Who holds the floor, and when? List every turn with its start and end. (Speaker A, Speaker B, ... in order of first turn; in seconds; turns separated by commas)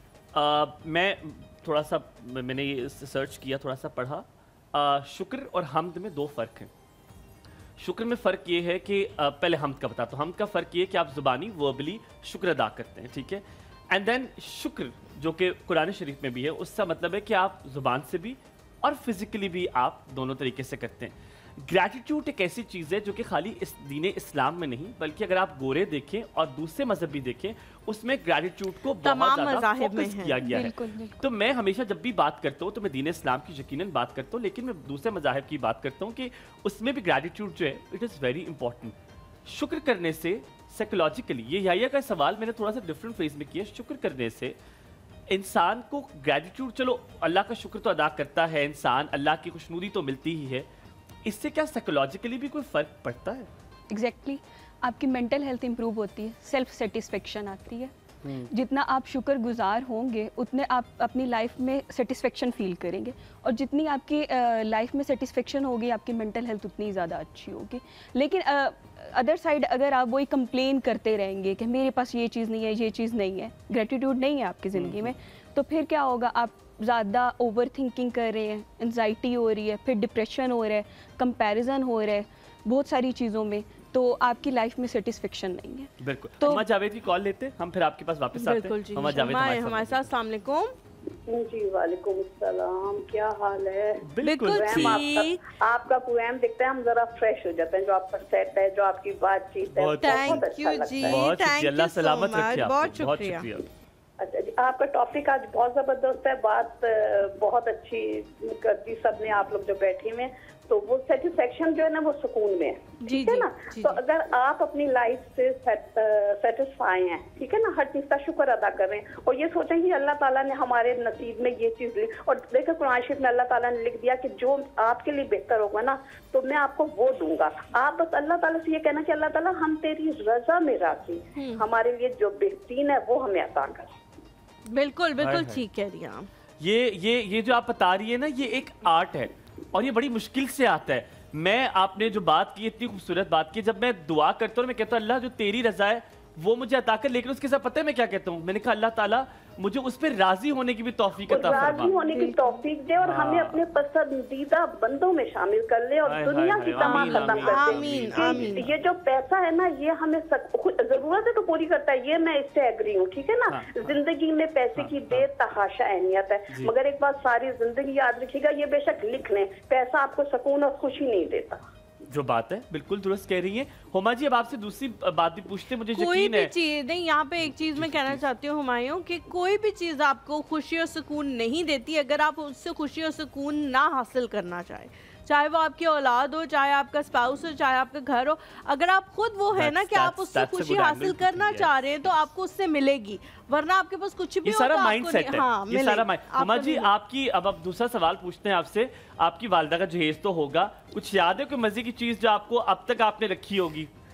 Speaker A: 0.3-6.7, Speaker A: 7.8-39.0, Speaker B: 29.0-30.6, Speaker C: 30.4-31.2, Speaker A: 39.5-44.6, Speaker A: 45.3-50.7, Speaker A: 51.2-53.5, Speaker C: 53.9-57.9, Speaker A: 58.2-58.5, Speaker C: 58.5-86.6, Speaker A: 74.8-75.1, Speaker A: 86.0-90.0, Speaker B: 88.3-90.7, Speaker D: 91.3-101.2, Speaker A: 94.1-95.0, Speaker B: 94.2-95.4, Speaker A: 99.7-100.5, Speaker B: 100.0-103.5, Speaker A: 101.0-103.7, Speaker D: 104.2-133.9, Speaker B: 113.0-114.0, Speaker B: 131.4-131.7, Speaker B: 134.7-136.3, Speaker A: 135.2-135.6, Speaker A: 136.6-151.9, Speaker D: 151.3-171.6, Speaker B: 151.6-152.6, Speaker A: 153.0-153.7, Speaker A: 156.1-158.7, Speaker B: 156.8-158.7, Speaker A: 163.5-164.0, Speaker A: 164.8-165.3, Speaker A: 172.1-176.5, Speaker B: 175.9-196.9, Speaker A: 177.4-178.2, Speaker A: 189.5-192.3, Speaker A: 194.4-203.9